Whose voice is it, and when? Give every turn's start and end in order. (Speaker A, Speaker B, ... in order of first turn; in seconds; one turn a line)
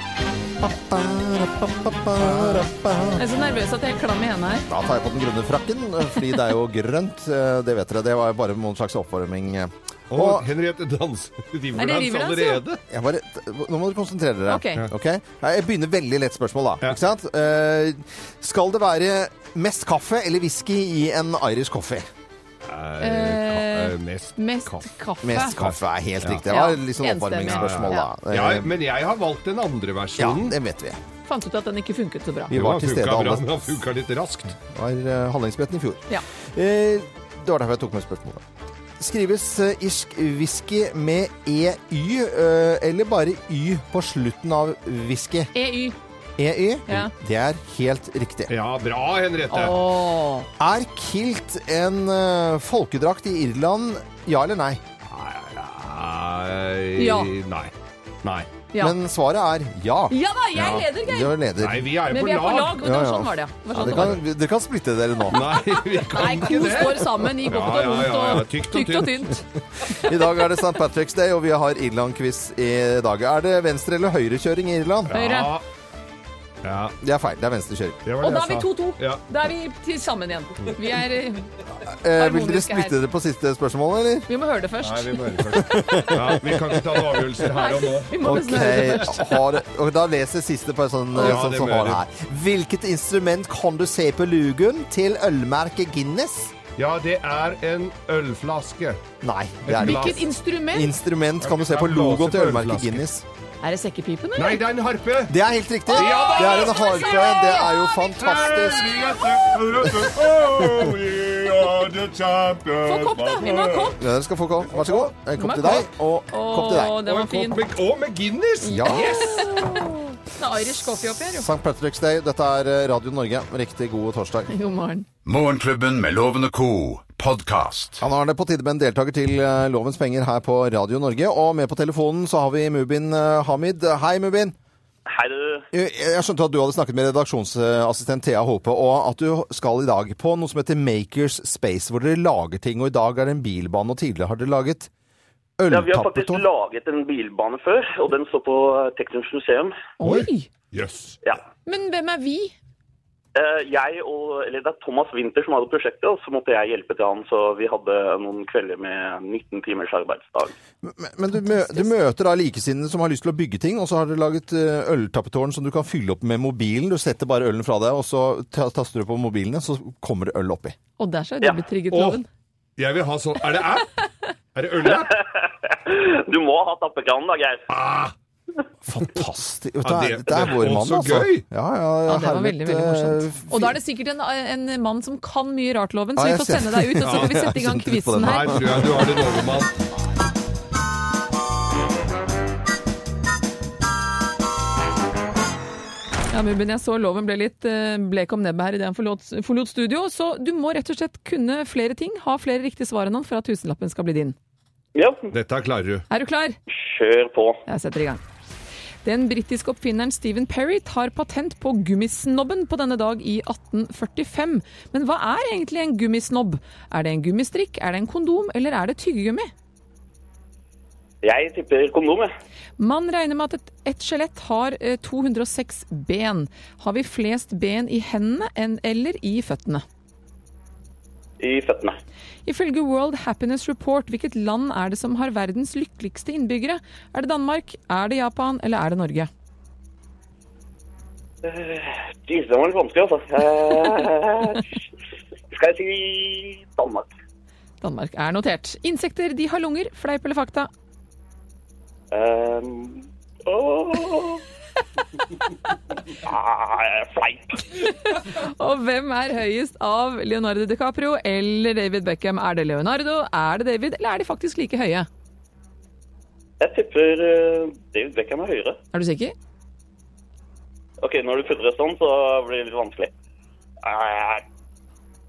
Speaker A: 0.6-3.2
Speaker B: 2.2-2.6
Speaker C: 3.2-4.7
Speaker A: 4.7-10.5
Speaker B: 10.1-12.8
Speaker C: 11.8-12.6
Speaker A: 12.9-22.1
Speaker C: 14.5-14.8
Speaker B: 22.7-24.8
Speaker C: 23.0-25.6
Speaker A: 25.2-28.7
Speaker B: 25.6-26.4
Speaker C: 26.5-28.1
Speaker B: 27.4-30.5
Speaker A: 30.2-31.0
Speaker C: 31.3-32.5
Speaker A: 32.5-33.7
Speaker B: 32.5-34.6
Speaker A: 34.6-38.4
Speaker A: 39.0-45.5
Speaker C: 45.5-46.0
Speaker A: 46.4-48.5
Speaker B: 48.5-49.8
Speaker C: 49.5-50.5
Speaker A: 50.6-54.8
Speaker B: 55.1-57.7
Speaker C: 57.0-57.3
Speaker B: 58.2-58.5
Speaker A: 58.8-60.1
Speaker C: 60.1-61.3
Speaker B: 60.6-60.9
Speaker A: 61.0-61.9
Speaker B: 61.6-62.8
Speaker C: 62.1-64.2
Speaker A: 62.8-65.5
Speaker B: 63.8-64.2
Speaker B: 65.3-69.3
Speaker C: 66.0-70.0
Speaker A: 69.9-75.1
Speaker B: 75.1-75.6
Speaker C: 75.1-75.5
Speaker B: 76.6-77.0
Speaker A: 77.0-78.0
Speaker B: 78.0-79.2
Speaker C: 78.2-81.5
Speaker A: 81.8-84.3
Speaker C: 82.1-83.0
Speaker C: 84.3-86.2
Speaker B: 84.8-88.2
Speaker A: 85.5-87.0
Speaker C: 87.5-89.4
Speaker A: 88.2-96.5
Speaker B: 91.2-92.0
Speaker B: 96.8-99.0
Speaker A: 99.2-103.2
Speaker B: 99.7-100.2
Speaker C: 99.8-100.9
Speaker B: 101.4-103.0
Speaker C: 103.6-104.6
Speaker B: 104.4-105.3
Speaker A: 105.3-109.1
Speaker C: 105.9-108.2
Speaker B: 106.0-107.0
Speaker B: 108.2-113.9
Speaker A: 110.6-110.9
Speaker C: 112.8-114.0
Speaker A: 114.0-117.0
Speaker B: 114.7-115.1
Speaker C: 115.4-117.6
Speaker B: 117.0-119.8
Speaker A: 118.6-119.8
Speaker C: 118.6-121.5
Speaker A: 121.1-124.5
Speaker C: 124.5-125.1
Speaker D: 125.2-128.0
Speaker A: 128.0-134.6
Speaker E: 135.1-135.6
Speaker A: 135.7-144.9
Speaker A: 145.6-146.4
Speaker E: 145.7-149.8
Speaker C: 150.0-150.5
Speaker B: 150.0-151.2
Speaker C: 151.7-152.5
Speaker E: 153.3-160.5
Speaker A: 160.8-170.8
Speaker C: 161.6-161.8
Speaker C: 171.0-172.3
Speaker B: 171.9-172.2
Speaker B: 172.8-173.9
Speaker B: 174.5-175.2
Speaker E: 174.8-177.7
Speaker B: 177.7-178.1
Speaker A: 178.8-183.8
Speaker B: 179.8-181.4
Speaker C: 182.1-188.8
Speaker A: 186.2-189.2
Speaker B: 187.0-187.4
Speaker B: 188.2-189.7
Speaker C: 196.3-204.3
Speaker E: 204.9-205.3
Speaker B: 205.3-206.1
Speaker C: 206.1-206.6
Speaker E: 206.7-207.6
Speaker C: 207.7-208.2
Speaker C: 209.0-219.5
Speaker E: 221.2-222.3
Speaker C: 222.8-229.8
Speaker E: 231.4-232.0
Speaker C: 232.5-239.3
Speaker E: 241.4-244.8
Speaker E: 245.5-247.1
Speaker C: 247.8-250.7
Speaker E: 252.1-254.4
Speaker E: 256.2-257.7
Speaker C: 258.1-265.1
Speaker E: 266.6-268.8
Speaker C: 268.9-269.3
Speaker E: 271.0-273.1
Speaker E: 273.8-274.4